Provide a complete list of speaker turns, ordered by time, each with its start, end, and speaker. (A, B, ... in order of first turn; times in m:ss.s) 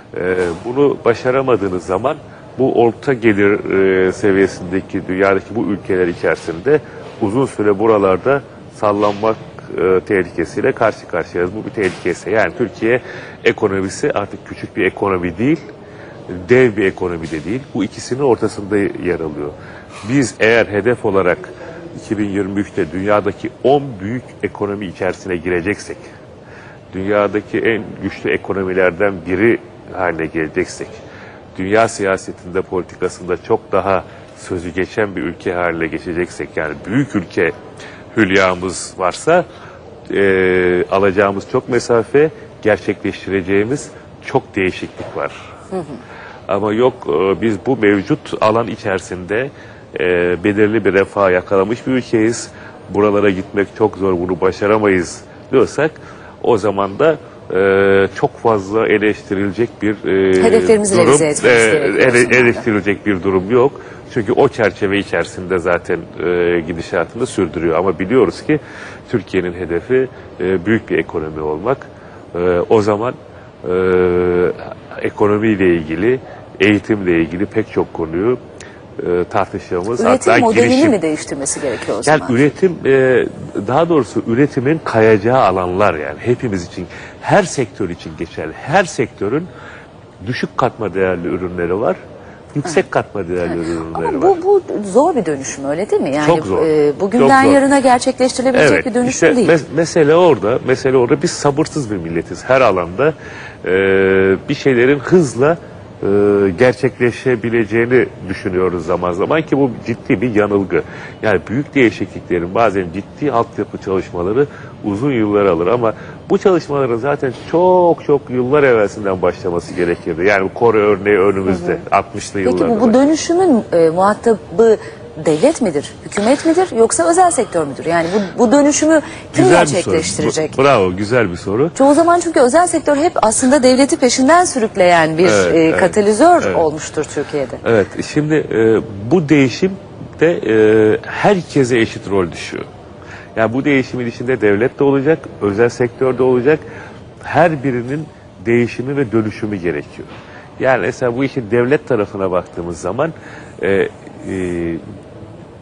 0:00.1-0:15.6 A
0:16.3-0:26.0 A
0:26.9-0:31.0 A
0:31.6-0:37.6 A
0:38.1-0:39.4 A
0:40.1-0:45.3 A
0:45.7-0:46.0 B
0:46.5-1:18.4 A
1:00.4-1:02.7 B
1:19.0-1:21.0 A
1:20.0-1:22.5 B
1:22.0-1:29.5 A
1:30.2-1:32.0 A
1:32.5-1:34.4 A
1:33.5-1:39.6 B
1:36.2-1:37.6 A
1:38.5-2:03.0 A
2:01.5-2:01.8 B
2:02.4-2:10.6 B
2:09.3-2:11.8 A
2:11.8-2:17.6 B
2:15.2-2:16.7 A
2:17.6-2:22.7 A
2:23.4-2:26.6 A
2:27.2-2:34.8 A